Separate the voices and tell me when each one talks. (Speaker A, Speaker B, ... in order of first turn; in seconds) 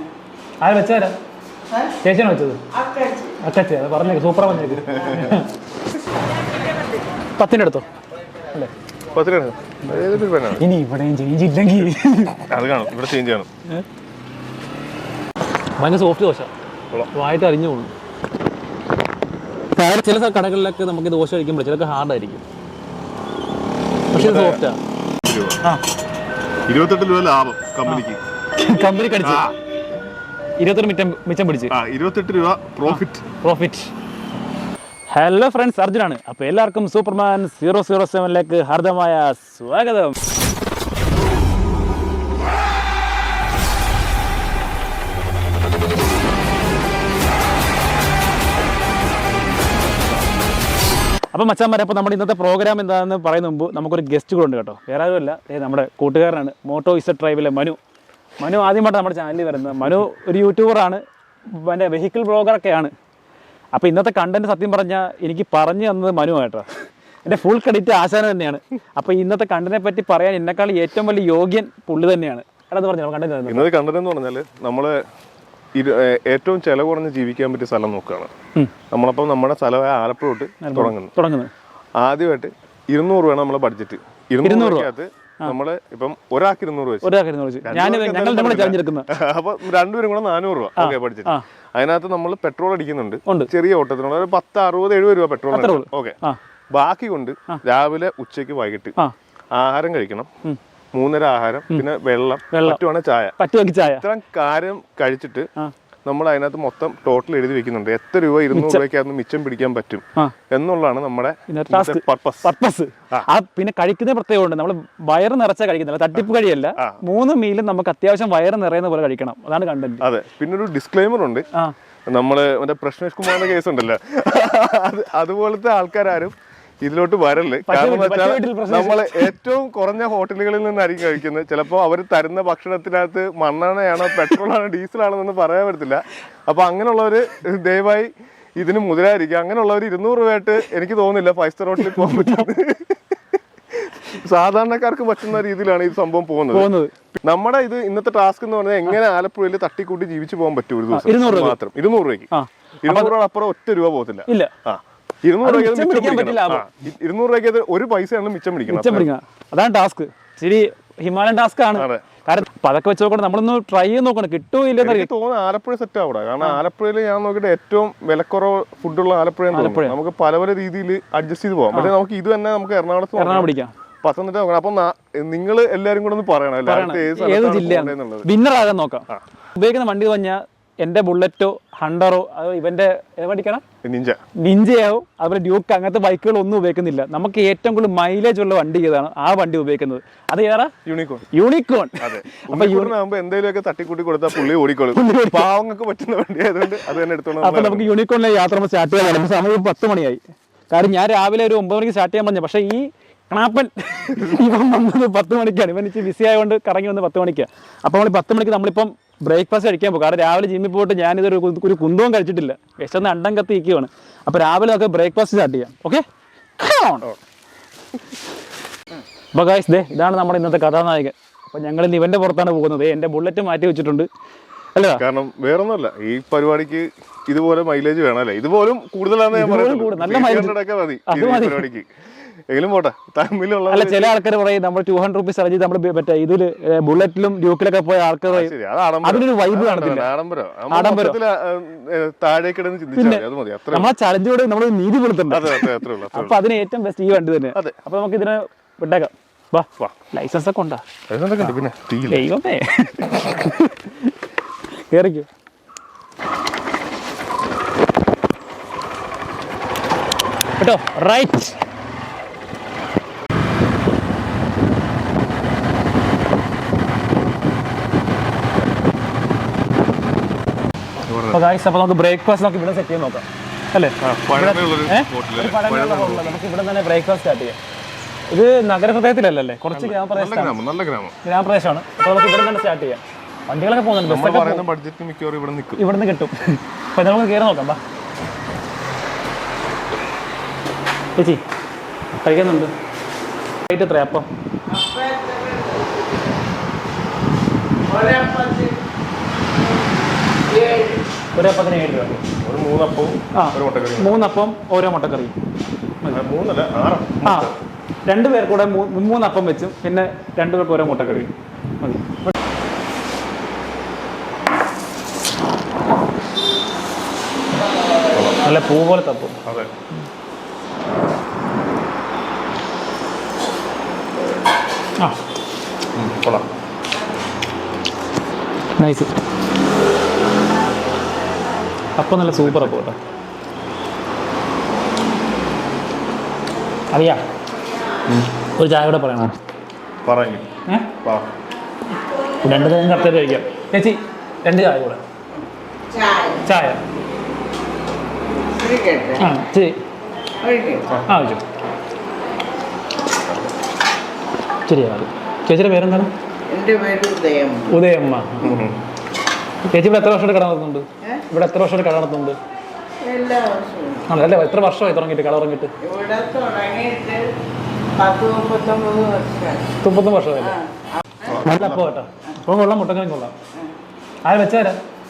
Speaker A: 0.6-1.1, 2.0-2.6, 3.4-5.5, 7.4-7.8, 10.6-12.5, 15.8-16.5, 17.1-17.9, 19.7-22.4, 24.1-24.8, 28.6-29.5, 30.6-31.7, 32.9-33.9, 35.1-40.1, 51.3-57.8, 58.4-62.9, 63.7-66.7, 67.2-73.7, 80.6-81.5, 84.4-84.9, 87.0-89.1, 90.8-91.4, 95.5-96.4, 102.5-102.8, 103.4-104.0, 108.5-108.8, 111.5-120.0, 127.7-129.3, 141.8-142.4, 146.5-146.9, 150.9-151.6, 152.3-153.1, 154.3-154.5, 155.4-156.7, 158.7-165.1, 169.5-169.9, 173.2-173.7, 176.7-183.6, 184.4-190.7, 191.3-192.9, 194.9-195.4, 197.4-216.0, 216.6-217.1, 219.3-224.1, 224.7-225.0, 229.3-230.6, 231.1-231.7, 233.7-238.5, 239.0-240.1, 240.7-241.2, 242.9-250.8, 252.1-254.1, 254.9-255.3, 260.6-261.6, 271.3-277.6, 278.3-280.6, 281.2-284.6, 285.8-287.8, 291.2-291.4, 292.2-292.7, 293.7-294.3, 301.3-302.2, 303.3-305.3, 307.2-307.5, 308.1-312.3, 318.4-319.4, 328.8-329.1, 332.0-333.0, 336.9-337.2, 338.6-339.3, 340.7-340.9, 342.4-345.0, 346.4-346.8, 349.2-349.7, 351.1-351.4, 354.7-356.1, 357.7-358.6, 359.7-362.4, 364.1-365.7, 369.8-370.6, 371.4-373.3, 374.2-374.8
Speaker B: 2.7-3.3, 294.7-296.3, 297.8-298.8, 299.5-299.9, 300.4-301.0, 345.9-346.4, 348.5-349.3, 350.4-350.9, 356.5-357.7, 363.0-364.1, 365.8-367.3, 367.9-369.6
Speaker C: 4.6-5.4, 9.1-10.6, 12.5-13.5, 24.1-24.6, 25.2-25.6, 26.7-28.2, 29.2-29.5, 31.7-33.2, 73.5-75.0, 75.7-78.3, 78.9-81.1, 82.0-87.1, 87.6-96.2, 96.7-98.9, 99.5-100.3, 100.9-105.5, 106.0-112.5, 120.0-121.5, 122.1-146.7, 147.2-152.3, 152.8-159.1, 161.7-162.0, 164.8-178.3, 183.8-184.2, 190.8-191.3, 192.0-197.9, 224.9-231.9, 232.5-234.1, 238.3-243.9, 245.3-246.4, 251.1-252.3, 271.1-271.4, 274.0-276.4, 279.7-281.1, 284.0-285.8, 302.4-304.2, 306.1-307.6, 310.8-311.3, 319.4-319.7, 325.9-326.5, 332.2-332.8, 340.0-340.5, 341.0-341.3, 358.4-358.8, 371.2-371.9